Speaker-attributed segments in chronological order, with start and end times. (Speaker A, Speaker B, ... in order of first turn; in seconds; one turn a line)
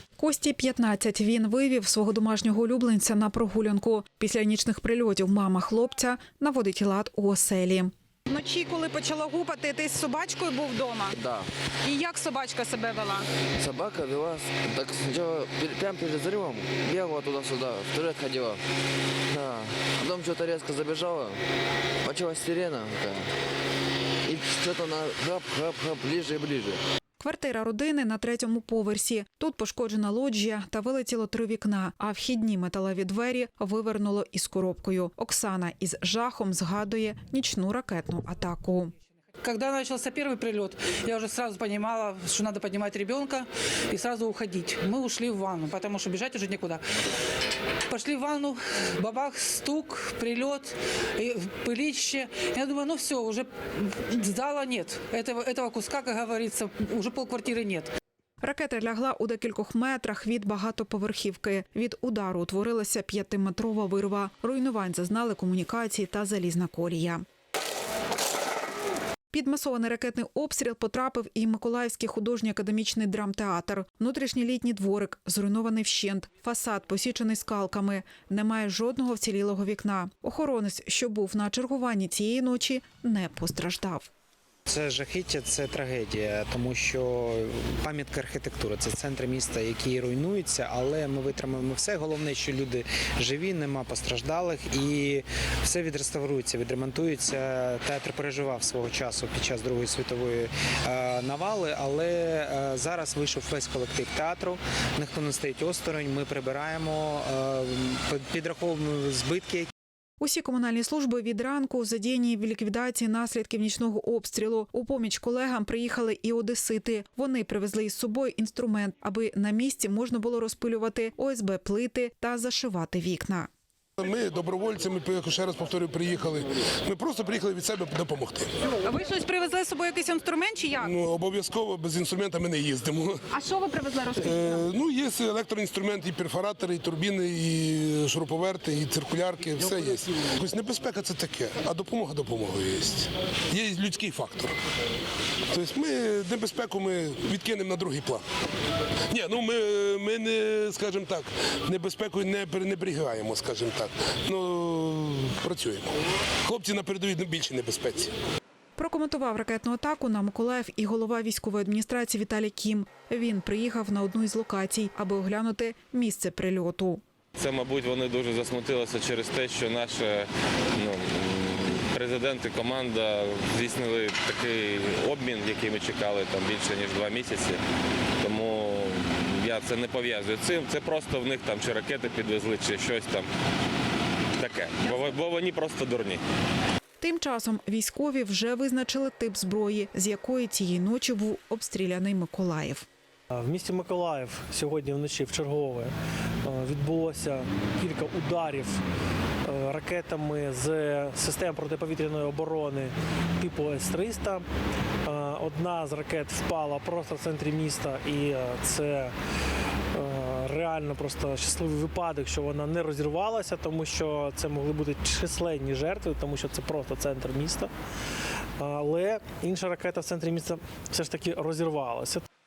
Speaker A: 0.2-7.9
Speaker B: 8.3-11.1
Speaker C: 11.1-11.5
Speaker B: 11.8-13.3
Speaker C: 13.6-18.6
Speaker C: 19.3-21.4
Speaker C: 22.0-23.3
Speaker C: 24.2-26.8
Speaker A: 27.2-38.9
Speaker D: 39.4-46.9
Speaker D: 47.9-57.9
Speaker A: 58.4-67.2
Speaker A: 69.3-84.1
Speaker E: 84.7-109.7
Speaker A: 110.2-123.5
Speaker F: 124.0-128.5
Speaker B: 128.8-130.9
Speaker F: 130.8-133.3
Speaker B: 133.3-134.4
Speaker F: 134.0-144.6
Speaker F: 145.5-148.2
Speaker F: 149.1-158.1
Speaker A: 158.8-167.0
Speaker G: 167.4-177.6
Speaker G: 178.2-183.3
Speaker G: 184.4-186.2
Speaker A: 187.0-192.9
Speaker H: 193.3-195.9
Speaker H: 196.4-198.8
Speaker H: 199.4-204.4
Speaker H: 205.1-209.1
Speaker H: 209.9-217.7
Speaker H: 218.6-222.2